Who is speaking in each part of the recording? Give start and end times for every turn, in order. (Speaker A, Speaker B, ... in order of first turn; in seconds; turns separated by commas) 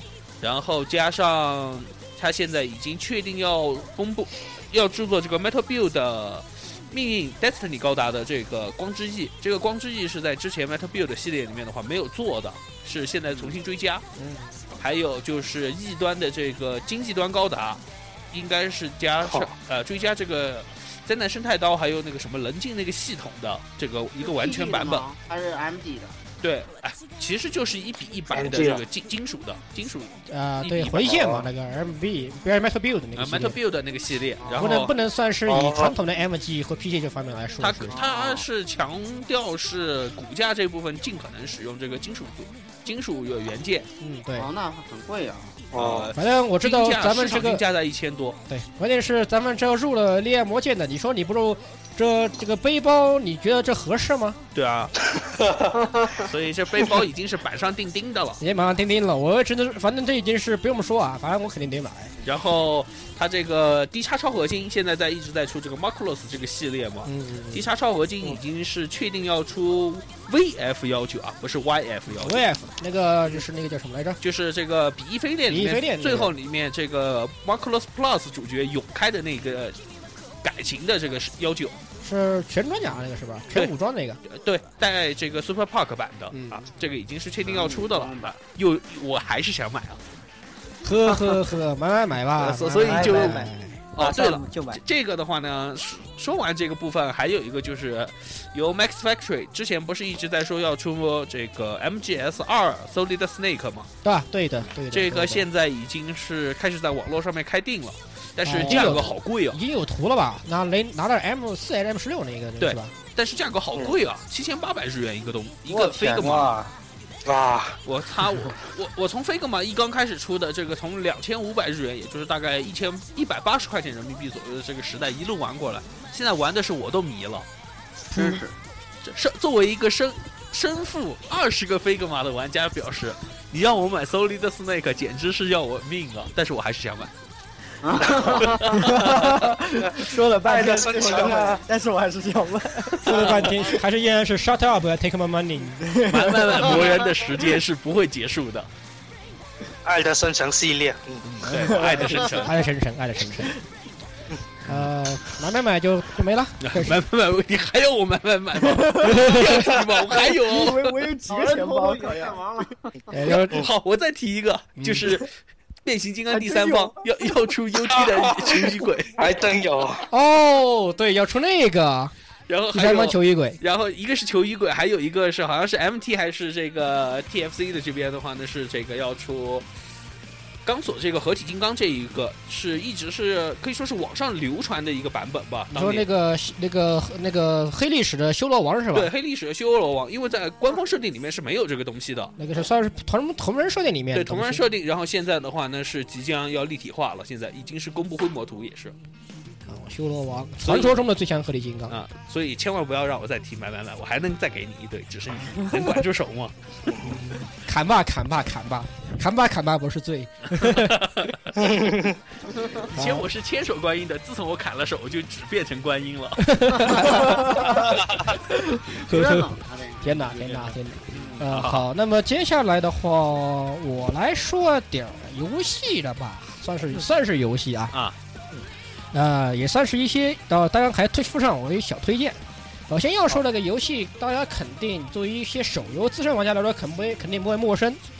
Speaker A: 0.4-14.0, Speaker B: 14.2-14.6, Speaker A: 14.8-25.1, Speaker C: 24.2-26.2, Speaker A: 26.4-31.3, Speaker D: 28.3-28.8, Speaker B: 30.3-33.5, Speaker C: 31.0-31.4, Speaker A: 33.1-34.9, Speaker C: 34.4-34.7, Speaker B: 34.5-38.0, Speaker D: 35.5-35.9, Speaker A: 37.6-43.9, Speaker C: 37.9-38.5, Speaker B: 44.0-44.5, Speaker C: 44.4-45.7, Speaker D: 45.7-46.1, Speaker A: 45.7-48.4, Speaker B: 46.1-47.6, Speaker B: 48.5-54.4, Speaker A: 54.5-54.9, Speaker D: 55.2-55.7, Speaker C: 55.7-56.3, Speaker A: 56.1-58.4, Speaker B: 58.4-62.1, Speaker A: 62.2-72.4, Speaker B: 67.0-67.6, Speaker B: 72.1-74.2, Speaker A: 74.2-79.8, Speaker B: 75.5-76.3, Speaker A: 80.4-81.8, Speaker B: 82.0-84.2, Speaker A: 84.3-90.0, Speaker B: 86.3-86.7, Speaker C: 87.4-88.3, Speaker B: 90.8-93.8, Speaker A: 92.4-103.9, Speaker E: 92.8-94.8, Speaker B: 104.0-105.5, Speaker A: 104.9-109.6, Speaker B: 108.4-112.9, Speaker A: 112.6-116.5, Speaker C: 115.7-116.5, Speaker D: 117.2-117.8, Speaker A: 117.8-127.5, Speaker B: 128.1-128.4, Speaker C: 128.1-128.5, Speaker A: 129.0-137.1, Speaker C: 137.8-138.9, Speaker A: 138.4-139.3, Speaker E: 138.7-143.5, Speaker D: 139.9-141.6, Speaker C: 141.0-141.5, Speaker B: 143.0-145.9, Speaker E: 145.8-146.8, Speaker A: 146.1-148.7, Speaker D: 149.8-151.2, Speaker A: 151.2-152.6, Speaker E: 151.5-151.9, Speaker B: 152.2-153.6, Speaker B: 154.7-156.9, Speaker A: 156.6-160.9, Speaker B: 159.0-159.6, Speaker E: 160.4-162.4, Speaker C: 161.2-163.3, Speaker B: 163.1-163.6, Speaker A: 163.5-165.3, Speaker B: 164.8-165.1, Speaker A: 165.8-169.2, Speaker E: 166.3-166.9, Speaker D: 167.9-168.6, Speaker D: 169.2-170.1, Speaker B: 170.1-172.1, Speaker A: 172.5-179.7, Speaker B: 172.7-173.6, Speaker A: 180.6-186.1, Speaker B: 185.7-189.1, Speaker A: 188.9-192.3, Speaker B: 192.4-194.6, Speaker A: 194.1-198.9, Speaker B: 199.7-201.9, Speaker A: 200.6-201.0, Speaker A: 201.9-206.5, Speaker B: 207.0-211.0, Speaker A: 210.6-211.6, Speaker C: 212.5-212.8, Speaker A: 212.8-217.2, Speaker B: 212.9-213.2, Speaker B: 216.4-218.0, Speaker C: 217.3-217.9, Speaker B: 218.7-219.5, Speaker C: 218.9-221.4, Speaker B: 220.0-227.9, Speaker A: 221.2-221.8, Speaker B: 229.1-238.0